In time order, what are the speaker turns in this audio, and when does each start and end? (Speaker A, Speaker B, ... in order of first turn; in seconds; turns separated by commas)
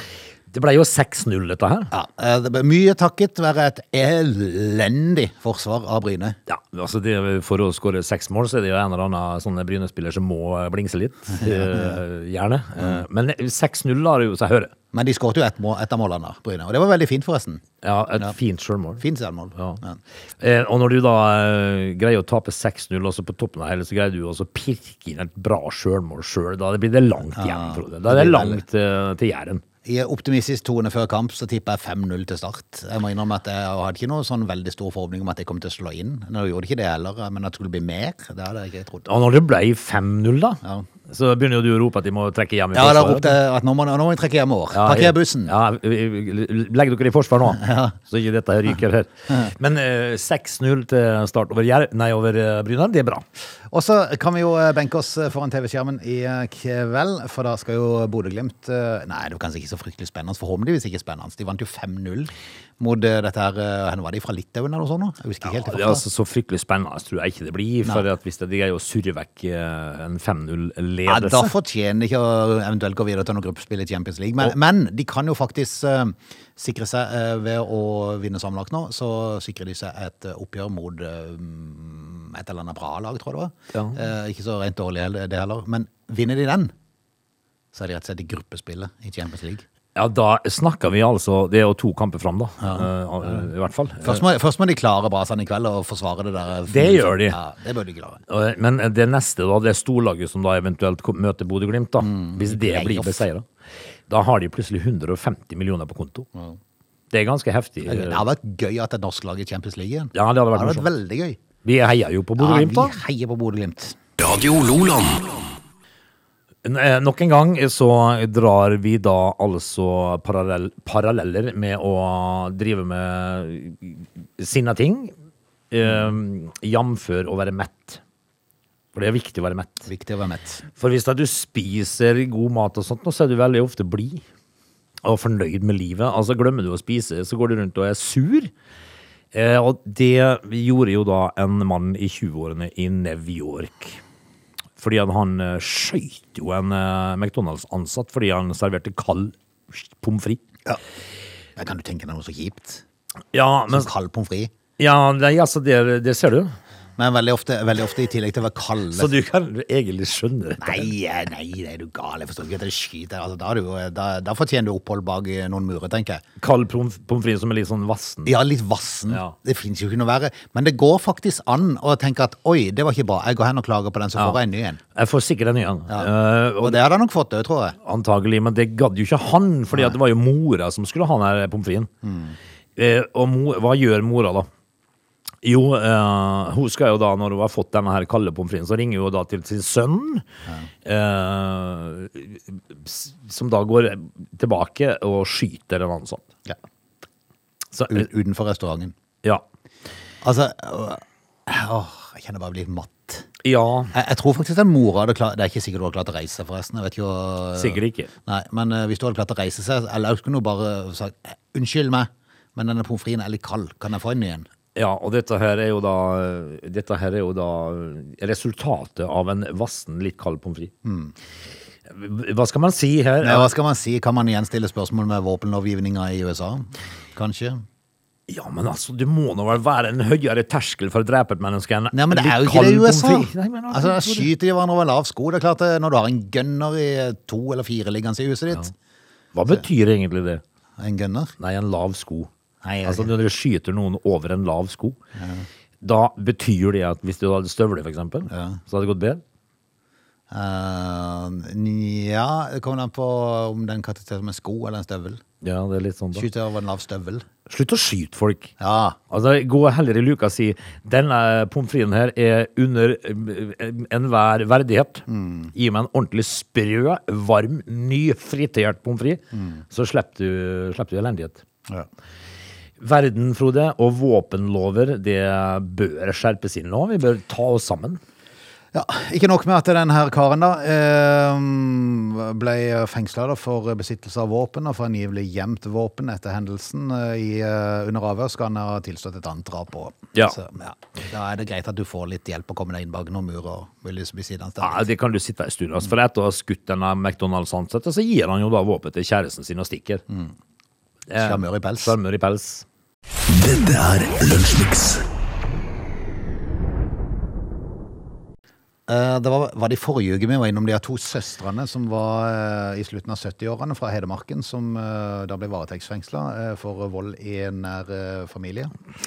Speaker A: 0.5-1.9, Speaker B: 1.9-6.3, Speaker A: 6.5-14.7, Speaker B: 11.3-12.0, Speaker B: 14.9-17.6, Speaker A: 17.8-19.0, Speaker B: 19.0-20.0, Speaker A: 19.5-19.8, Speaker A: 20.4-29.6, Speaker B: 27.4-28.6, Speaker B: 29.8-39.1, Speaker A: 39.0-43.4, Speaker B: 40.6-40.9, Speaker B: 42.7-45.5, Speaker A: 44.7-53.2, Speaker B: 47.6-47.9, Speaker B: 53.7-66.0, Speaker A: 65.4-71.5, Speaker B: 71.0-86.7, Speaker A: 83.7-84.0, Speaker B: 87.7-89.6, Speaker A: 89.9-94.2, Speaker B: 92.6-93.5, Speaker B: 94.0-98.2, Speaker A: 96.7-97.4, Speaker A: 98.3-103.5, Speaker B: 102.0-103.2, Speaker A: 104.1-106.3, Speaker A: 107.1-108.2, Speaker B: 107.8-111.4, Speaker A: 110.1-110.9, Speaker A: 111.6-113.0, Speaker B: 112.4-114.0, Speaker C: 114.2-115.5, Speaker A: 116.6-125.1, Speaker A: 125.7-128.0, Speaker B: 125.8-126.1, Speaker A: 128.9-129.8, Speaker B: 129.8-130.6, Speaker A: 130.8-134.2, Speaker A: 135.0-138.5, Speaker A: 139.3-144.0, Speaker A: 144.8-150.4, Speaker B: 151.6-152.8, Speaker A: 153.3-153.9, Speaker B: 153.7-154.5, Speaker A: 154.8-156.5, Speaker B: 157.0-159.1, Speaker A: 158.9-160.9, Speaker B: 160.6-166.2, Speaker A: 166.4-168.3, Speaker B: 168.2-174.8, Speaker A: 169.1-169.3, Speaker A: 174.9-176.8, Speaker B: 175.9-177.8, Speaker A: 177.8-181.9, Speaker B: 182.0-182.3, Speaker A: 182.8-184.5, Speaker A: 185.4-190.2, Speaker A: 190.8-196.3, Speaker A: 197.7-198.0, Speaker B: 197.9-198.9, Speaker B: 200.2-203.3, Speaker A: 203.4-203.9, Speaker B: 203.9-214.5, Speaker A: 207.5-208.1, Speaker A: 214.7-220.7, Speaker B: 220.8-221.1, Speaker A: 221.9-223.5, Speaker B: 223.2-227.6, Speaker A: 228.3-234.3, Speaker B: 231.9-238.7, Speaker A: 239.3-240.4, Speaker B: 240.8-241.3, Speaker A: 241.4-242.3, Speaker B: 242.6-243.1, Speaker A: 242.8-245.0, Speaker B: 245.2-245.4, Speaker A: 245.8-249.2, Speaker B: 248.3-248.6, Speaker B: 250.3-255.2, Speaker A: 255.4-256.3, Speaker B: 256.1-257.2, Speaker A: 257.5-258.5, Speaker B: 258.6-259.0, Speaker A: 259.1-271.4, Speaker B: 265.1-265.5, Speaker B: 269.3-269.6, Speaker A: 272.8-278.0, Speaker B: 278.7-294.9, Speaker A: 294.6-300.0, Speaker B: 300.1-300.3, Speaker A: 301.1-302.6, Speaker B: 301.2-301.9, Speaker C: 303.3-305.0, Speaker B: 308.9-318.7